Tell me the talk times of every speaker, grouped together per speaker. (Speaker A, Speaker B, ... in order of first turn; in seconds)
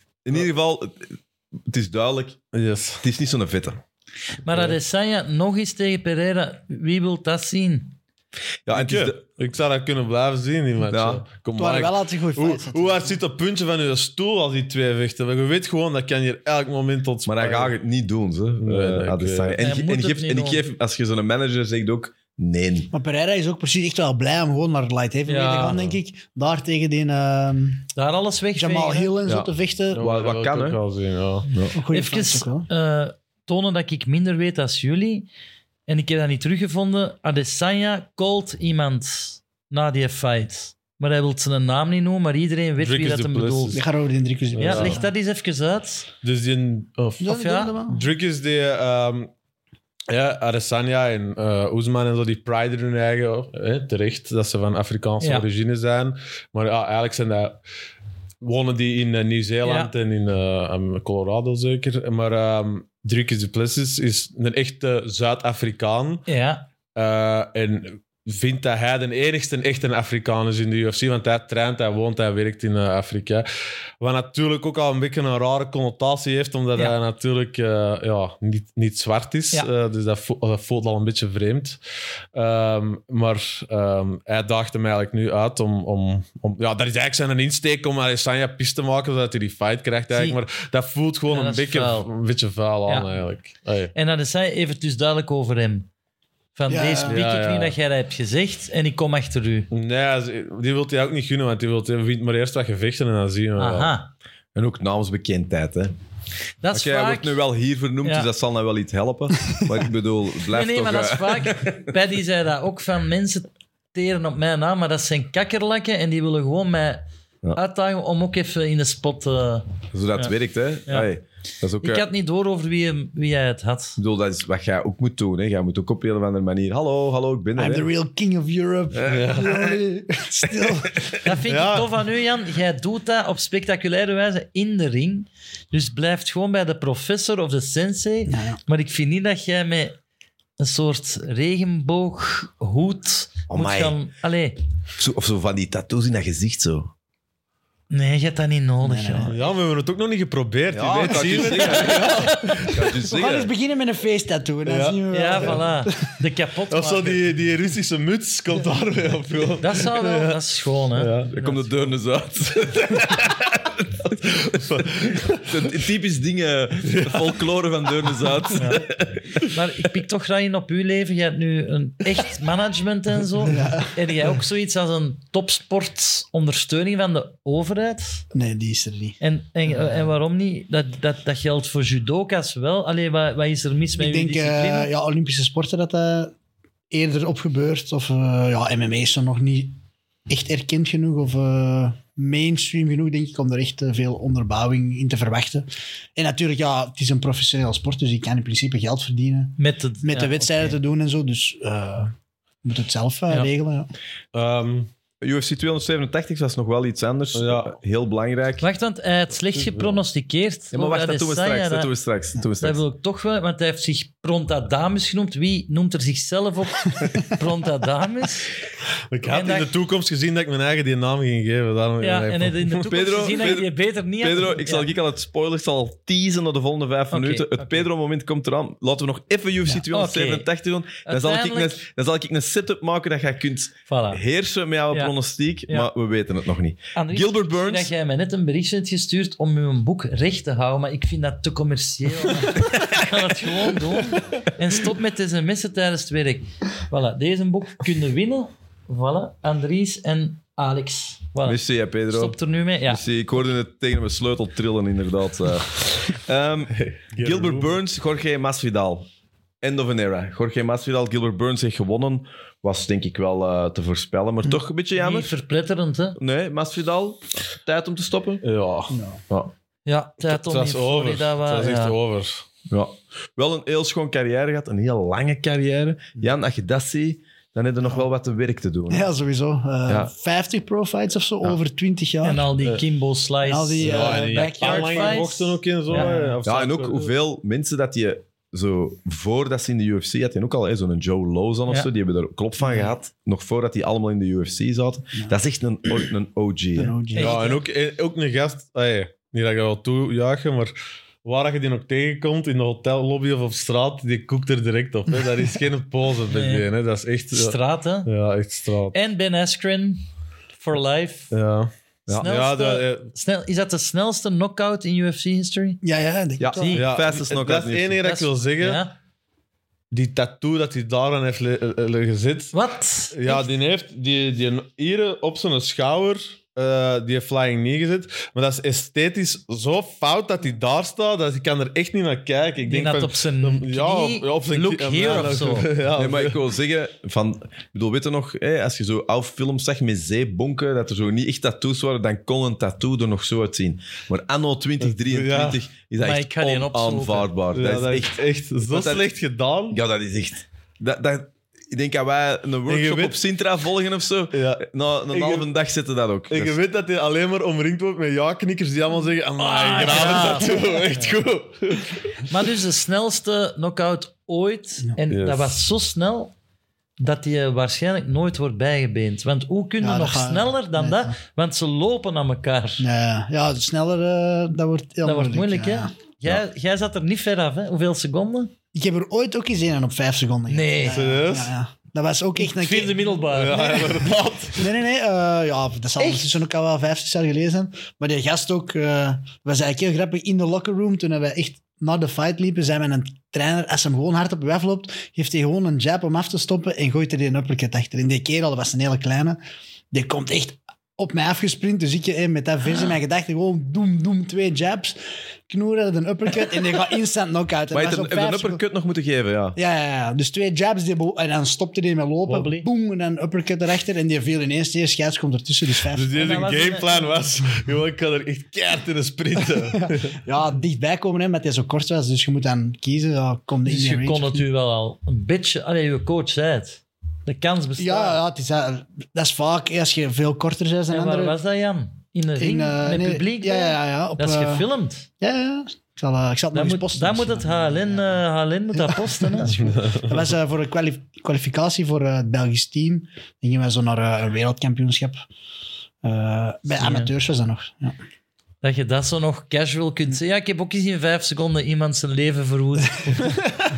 Speaker A: 0.2-2.4, 3.0-3.8, 8.7-9.2, 10.9-11.2, 17.2-22.9, 29.2-30.8, 31.5-31.8, 104.5-105.9, 106.7-111.9, 119.9-122.0, 124.0-127.9, 128.9-129.8, 130.5-131.2, 143.5-143.9, 145.0-146.9, 150.7-153.5, 161.3-169.5, 205.2-208.7, 210.7-212.8, 222.9-237.9, 242.7-243.0, 251.4-259.1, 259.6-265.3, 266.2-268.4, 272.7-279.1, 286.4-296.9, 316.4-318.0, 335.9-349.1, 349.7-356.6, 407.7-409.6
Speaker B: 2.5-3.0, 4.5-4.8, 8.7-17.7, 18.6-19.6, 25.5-26.0, 29.9-31.5, 42.8-43.8, 44.5-45.0, 46.2-49.3, 50.1-57.6, 58.4-66.2, 66.9-73.5, 74.0-81.8, 82.3-93.9, 97.0-97.8, 99.7-103.9, 129.1-129.5, 131.4-131.9, 149.3-152.8, 154.7-155.6, 156.7-160.4, 160.9-161.4, 164.5-165.6, 166.9-167.3, 204.3-204.9, 207.3-207.8, 209.5-210.0, 219.1-222.9, 256.8-257.8, 268.4-268.9, 270.2-272.4, 283.8-287.1, 297.1-300.7, 301.2-308.9, 311.3-313.1, 316.7-318.8, 319.9-322.5, 323.1-336.4, 344.8-345.6, 347.5-349.8, 352.7-353.2, 354.3-355.5, 356.3-362.1, 365.1-365.6, 380.9-381.5, 383.3-384.7, 415.9-420.2, 439.6-440.1
Speaker C: 4.4-8.0, 19.6-20.6, 25.3-25.8, 27.9-29.1, 31.9-35.3, 35.9-43.8, 44.6-46.1, 47.2-47.7, 55.2-55.5, 59.6-59.9, 66.3-66.7, 91.3-92.1, 92.9-93.2, 93.9-95.9, 96.5-99.7, 103.6-104.1, 106.6-107.4, 110.5-120.3, 121.8-124.0, 131.2-140.0, 140.6-144.6, 147.9-149.3, 151.6-152.7, 155.1-157.2, 159.6-161.6, 168.5-168.9, 169.5-178.2, 179.2-184.9, 199.6-200.8, 208.6-211.9, 212.6-218.5, 219.2-219.7, 222.0-224.9, 227.1-227.9, 229.9-230.5, 231.0-231.8, 233.9-234.2, 236.9-253.0, 264.9-266.2, 269.9-271.9, 282.2-286.1, 297.1-297.6, 306.3-306.7, 307.3-308.1, 308.9-310.0, 310.6-311.3, 312.2-315.8, 316.5-316.8, 318.0-318.9, 322.5-323.5, 332.6-335.7, 346.0-347.3, 359.4-361.2, 362.3-366.3, 367.0-372.8, 375.0-378.5, 380.5-381.1, 382.4-384.1, 386.0-386.3, 412.3-412.7, 416.1-417.2, 423.6-428.2, 430.9-435.1, 436.5-439.8, 446.8-447.1, 448.6-453.3
Speaker D: 11.6-13.2, 22.9-27.9, 28.5-30.0, 31.7-32.7, 43.7-45.1, 47.2-48.0, 96.7-97.2, 127.5-131.1, 138.3-138.6, 148.8-149.4, 153.0-156.1, 173.4-173.9, 178.3-179.2, 184.0-186.3, 186.9-202.1, 202.6-203.9, 268.9-269.2, 278.9-282.5, 283.4-286.3, 292.6-292.9, 296.8-297.4, 315.8-316.7, 369.8-371.1, 372.8-375.9, 378.7-383.1, 384.6-399.4, 399.9-408.6, 409.6-416.3, 419.8-424.4, 427.8-431.4, 432.4-434.7, 435.2-438.1, 438.7-445.2, 446.0-447.9